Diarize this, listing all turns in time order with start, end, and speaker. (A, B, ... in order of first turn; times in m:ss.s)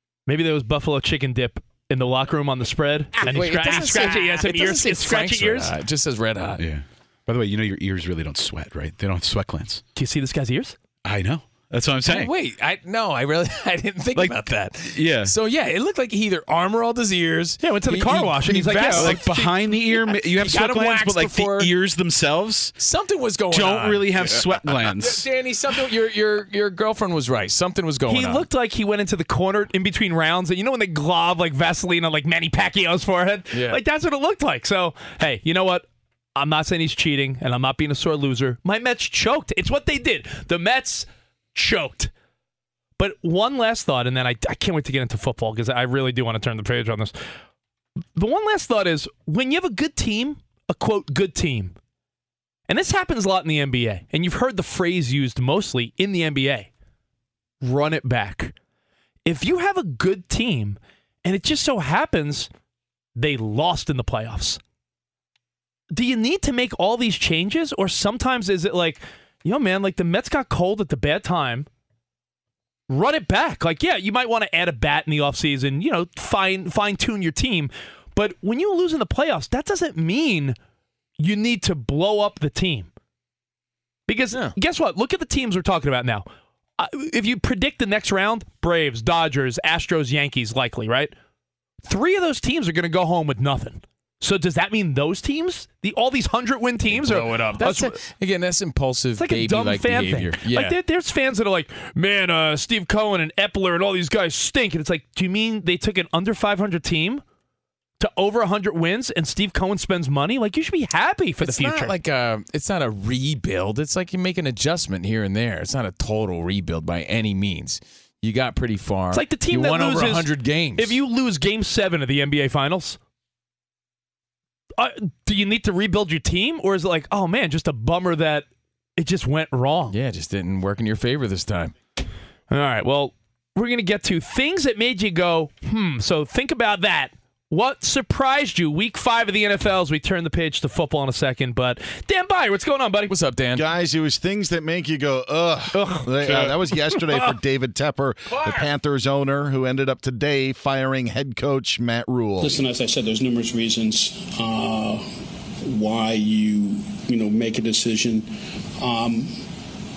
0:00.3-0:05.7 A
0:03.2-0:06.7 B
0:06.6-0:09.8 C
0:10.0-0:10.8 A
0:11.0-0:12.3 C
0:12.0-0:21.7 B
0:14.9-0:15.3 C
0:17.6-0:19.4 A
0:18.5-0:22.7 C
0:22.8-0:28.5 B
0:23.5-0:25.3 C
0:28.1-0:42.1 A
0:33.5-0:33.8 B
0:43.0-0:47.1 A
0:48.2-0:51.7 A
0:52.7-0:56.7 A
0:57.6-0:58.5 A
0:59.2-1:02.5 A
1:03.2-1:04.6 A
1:05.9-1:11.7 A
1:12.9-1:20.6 A
1:21.2-1:22.9 A
1:24.1-1:26.3 A
1:26.8-1:31.1 A
1:31.8-1:38.0 A
1:36.9-1:40.8 B
1:39.2-1:47.2 A
1:48.0-1:51.9 A
1:51.4-2:01.0 B
1:59.1-2:03.0 A
2:04.8-2:08.5 A
2:09.0-2:10.0 A
2:09.9-2:11.7 B
2:12.5-2:23.1 A
2:23.1-2:23.6 B
2:23.6-2:32.6 D
2:25.7-2:27.4 A
2:32.4-2:35.1 E
2:35.6-2:39.5 E